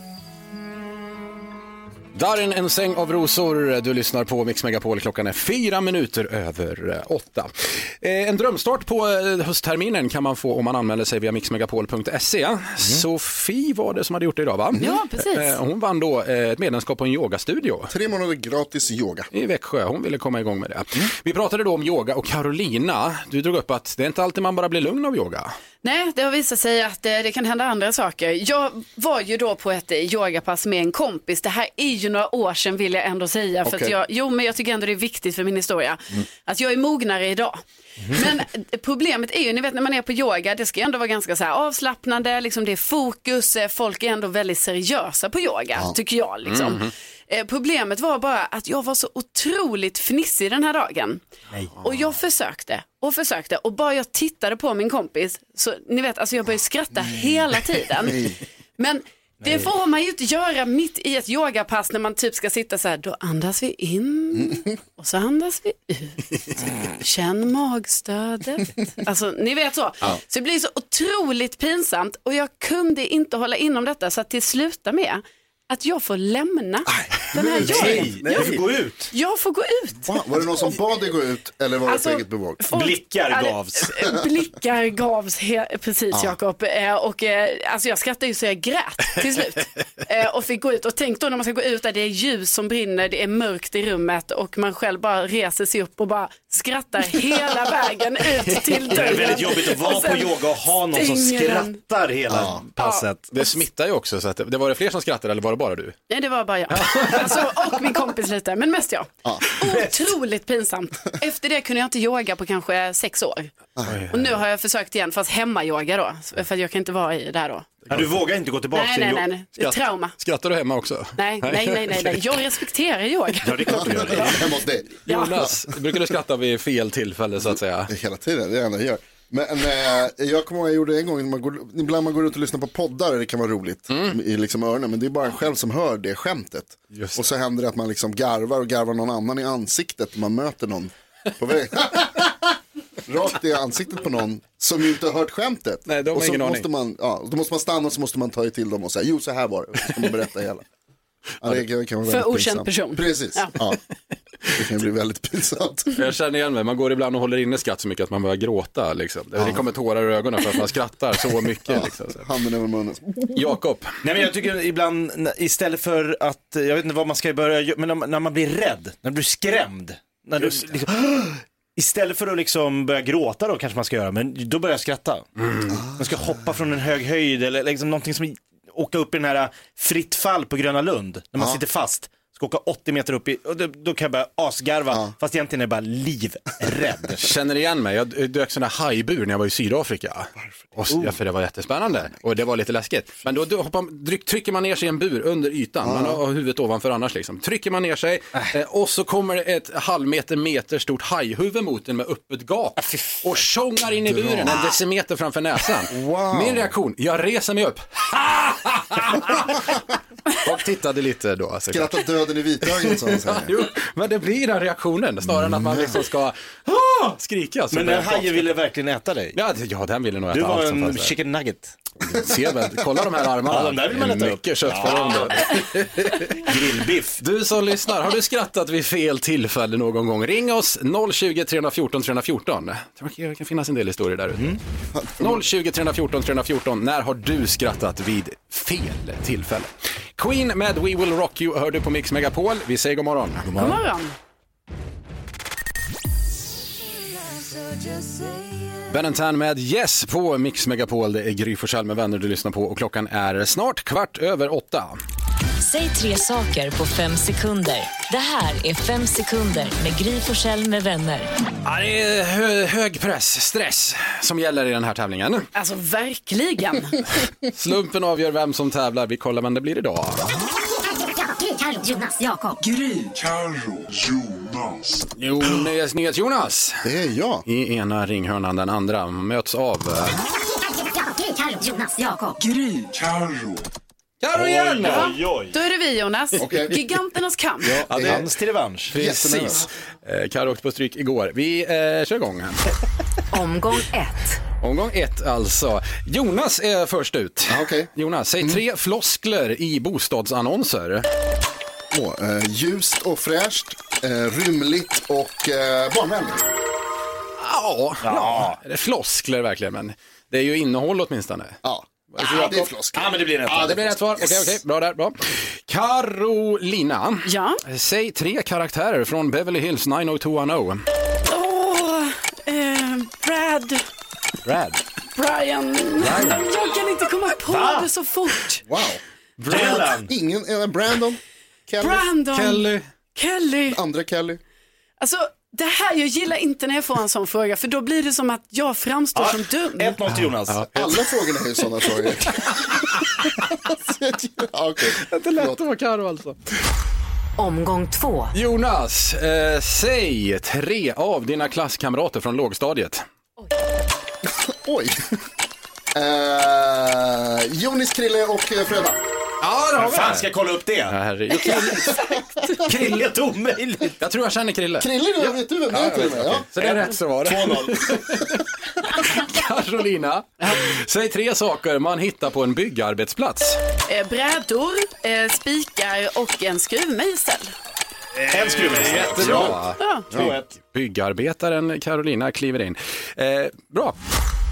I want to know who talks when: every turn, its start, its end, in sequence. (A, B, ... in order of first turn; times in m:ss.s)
0:02.1-0:17.9 A
0:14.8-0:15.6 B
0:17.9-0:19.3 C
0:19.3-0:25.5 A
0:25.8-0:51.2 B
0:33.6-0:33.9 C
0:46.5-0:46.9 A
0:51.8-1:06.2 B
0:58.1-0:58.4 C
1:06.8-1:20.7 B
1:16.9-1:18.6 C
1:17.6-1:19.1 D
1:20.1-1:22.6 C
1:21.9-1:41.8 B
1:22.7-1:24.0 D
1:38.9-1:43.3 D
1:42.3-1:42.6 C
1:42.8-1:43.1 B
1:43.3-1:46.0 A
1:46.1-1:53.5 B
1:46.7-1:47.3 A
1:53.9-1:54.3 A
1:54.1-1:57.7 B
1:57.9-1:59.3 D
1:58.7-2:00.1 B
1:59.6-2:02.4 A
2:01.2-2:04.4 B
2:03.4-2:04.5 D
2:03.7-2:05.5 C
2:05.1-2:05.4 B
2:05.1-2:07.9 A
2:07.9-2:22.6 C
2:13.9-2:14.2 A
2:16.9-2:17.3 A
2:23.1-2:30.6 C
2:25.9-2:26.7 A
2:31.4-2:33.8 C
2:32.1-2:33.5 B
2:34.5-2:36.0 C
2:35.9-2:42.3 A
2:41.7-2:43.3 C
2:43.3-2:44.0 A
2:44.0-2:55.3 D
2:55.7-2:56.0 C
2:56.0-3:07.3 D
3:07.2-3:32.0 A
3:15.8-3:16.2 C
3:24.1-3:24.6 C
3:25.9-3:26.7 C
3:31.7-3:33.6 C
3:32.6-3:38.5 A
3:35.3-3:36.0 C
3:37.7-3:39.4 D
3:39.3-3:41.1 A
3:40.3-3:41.8 D
3:42.1-3:46.6 A
3:43.5-3:45.6 D
3:46.4-3:47.2 D
3:47.2-3:54.6 A
3:55.0-3:55.4 C
3:55.2-4:03.4 A
4:03.4-4:03.8 D
4:03.6-4:04.1 B
4:08.9-4:15.0 A
4:15.6-4:21.3 E
4:21.6-4:25.5 A
4:25.6-4:27.0 B
4:27.5-4:30.3 A
4:31.2-4:32.6 E
4:32.8-4:35.0 F
4:35.2-4:36.9 A
4:36.8-4:37.4 C
4:37.5-4:40.2 A
4:40.7-4:42.4 E
4:42.5-4:42.8 A
4:42.8-4:43.7 F
4:44.2-4:45.1 A
4:44.3-4:45.6 D
4:44.8-4:47.8 B
4:46.4-4:46.8 C
4:47.6-4:49.0 D
4:47.9-4:48.3 A
4:47.9-4:48.3 C
4:48.9-4:49.7 C
4:48.9-4:52.6 A
4:53.3-4:54.4 E
4:54.6-5:01.1 A
4:57.5-4:57.9 C
5:01.9-5:06.5 C
5:07.4-5:11.6 A
5:08.0-5:08.6 D
5:11.6-5:14.6 C
5:12.2-5:14.3 D
5:13.5-5:20.8 A
5:17.3-5:17.6 B
5:21.2-5:23.8 B
5:24.5-5:24.8 D
5:25.1-5:28.6 B
5:26.0-5:26.4 A
5:27.5-5:27.9 D
5:28.7-5:32.0 C
5:29.4-5:29.8 A
5:29.5-5:30.1 D
5:31.8-5:33.8 B
5:32.3-5:32.8 A
5:33.7-5:34.4 C
5:35.0-5:40.0 B
5:39.1-5:40.7 D
5:40.5-5:40.8 A
5:40.7-5:45.6 C
5:45.0-5:46.4 A
5:47.4-5:48.3 E
5:48.3-5:53.0 A
5:54.3-5:55.0 C
5:55.9-5:59.0 C
5:59.4-6:00.3 A
5:59.8-6:01.0 D
6:00.9-6:01.9 A
6:01.5-6:02.5 B
6:02.6-6:04.0 D
6:02.6-6:03.1 A
6:04.0-6:04.9 A
6:04.8-6:06.5 C
6:05.7-6:13.6 A
6:06.6-6:08.2 D
6:13.9-6:17.5 B
6:18.3-6:19.6 D
6:18.5-6:24.0 A
6:19.1-6:19.6 C
6:19.8-6:20.0 B
6:20.1-6:20.5 D